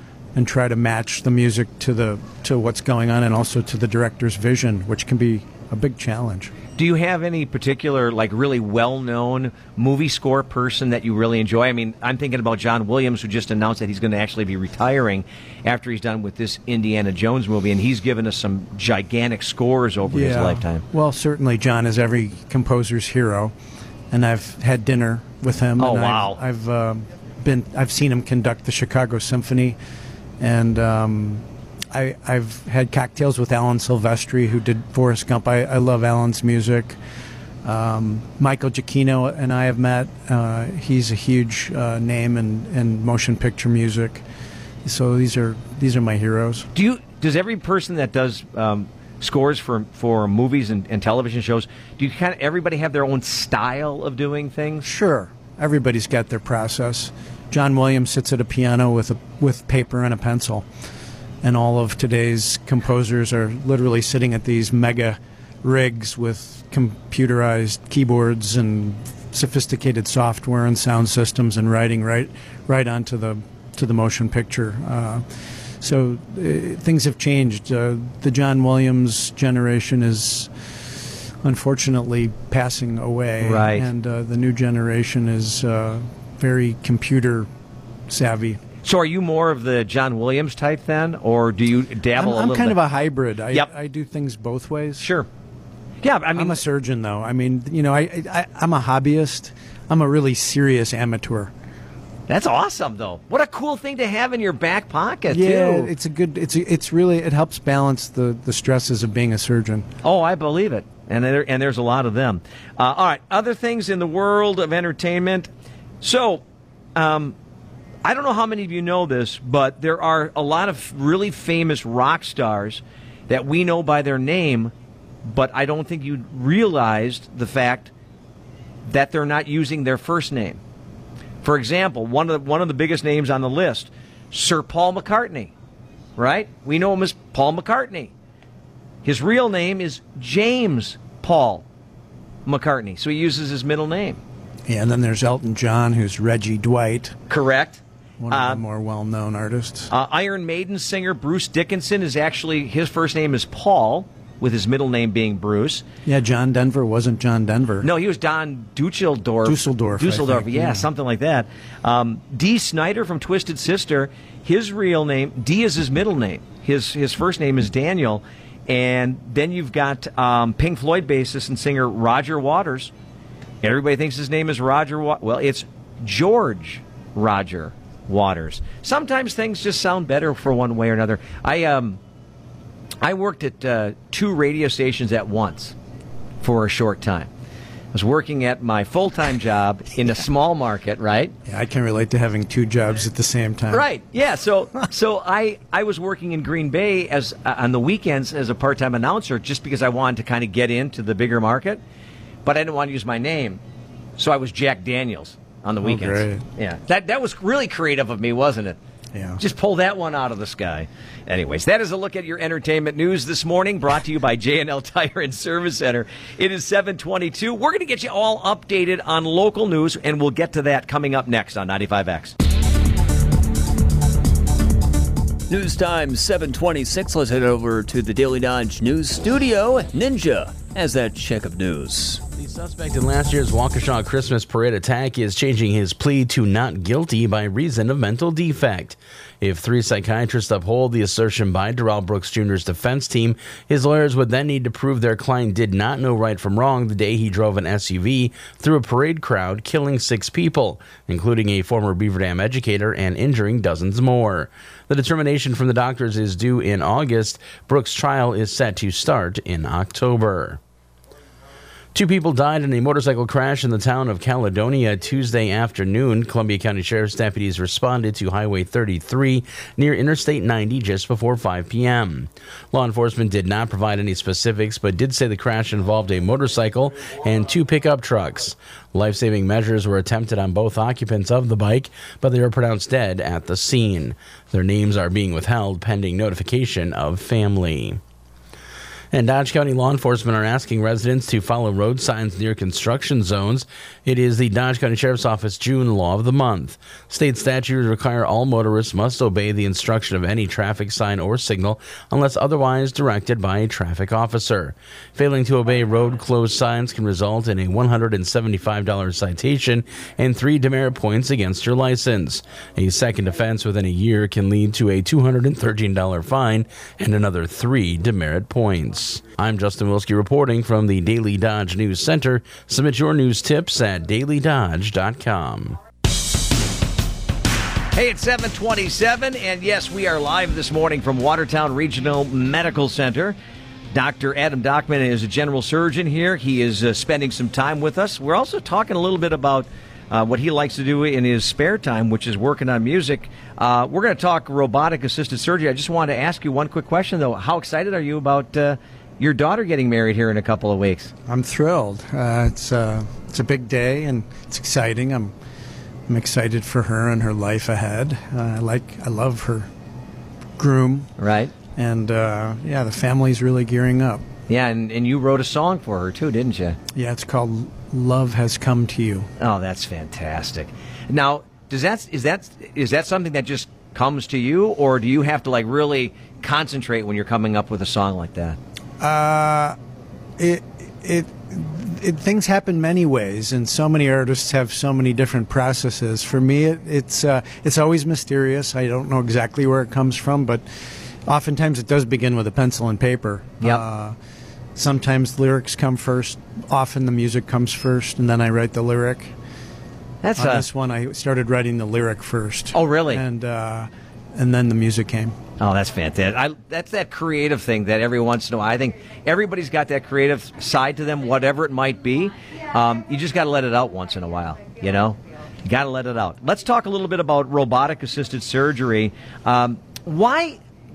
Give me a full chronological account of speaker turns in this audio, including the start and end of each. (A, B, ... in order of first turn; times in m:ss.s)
0:00.3-0:06.5 A
0:06.8-0:20.8 B
0:20.1-0:23.5 A
0:24.1-0:29.8 A
0:25.8-0:26.4 B
0:30.4-0:37.0 A
0:37.6-0:44.2 A
0:44.8-0:46.7 A
0:46.7-0:54.9 B
0:54.8-1:00.6 A
1:01.4-1:15.2 A
1:15.8-1:20.5 A
1:21.4-1:27.5 A
1:23.4-1:23.9 B
1:28.1-1:28.6 A
1:28.8-1:32.8 B
1:32.1-1:35.1 A
1:35.0-1:35.3 B
1:36.0-1:36.6 B
1:36.3-1:41.5 A
1:42.3-1:45.9 B
1:45.3-1:49.8 A
1:50.0-1:55.5 B
1:56.0-1:56.4 B
1:57.0-1:57.3 B
1:58.0-2:04.7 B
2:05.2-2:07.9 B
2:08.9-2:10.6 B
2:11.4-2:15.5 B
2:16.2-2:18.1 B
2:19.0-2:21.6 B
2:22.4-2:24.2 B
2:24.7-2:27.2 A
2:27.3-2:28.6 B
2:28.2-2:29.9 A
2:29.9-2:35.8 B
2:36.0-2:37.9 A
2:37.8-2:52.9 B
2:39.4-2:40.8 A
2:53.6-3:02.0 B
3:03.0-3:05.7 B
3:06.4-3:07.3 B
3:07.9-3:11.3 B
3:11.5-3:13.9 A
3:13.7-3:21.8 B
3:22.4-3:23.6 B
3:24.2-3:28.8 B
3:25.8-3:26.4 A
3:29.1-3:29.4 A
3:29.4-3:42.3 B
3:45.5-3:52.2 C
3:52.4-4:20.6 D
4:21.9-4:48.0 D
4:49.1-5:25.8 D
5:27.9-5:33.4 B
5:33.9-5:51.1 B
5:51.3-5:55.3 A
5:56.1-5:59.7 A
6:00.6-6:01.1 A
6:01.2-6:01.5 B
6:01.7-6:04.2 A
6:04.5-6:06.8 B
6:06.9-6:09.3 A
6:09.4-6:18.6 B
6:19.0-6:19.8 A
6:20.4-6:30.6 A
6:31.3-6:34.1 A
6:34.8-6:39.3 A
6:40.2-6:40.6 B
6:40.4-6:45.3 A
6:42.7-6:43.2 B
6:45.6-7:00.6 B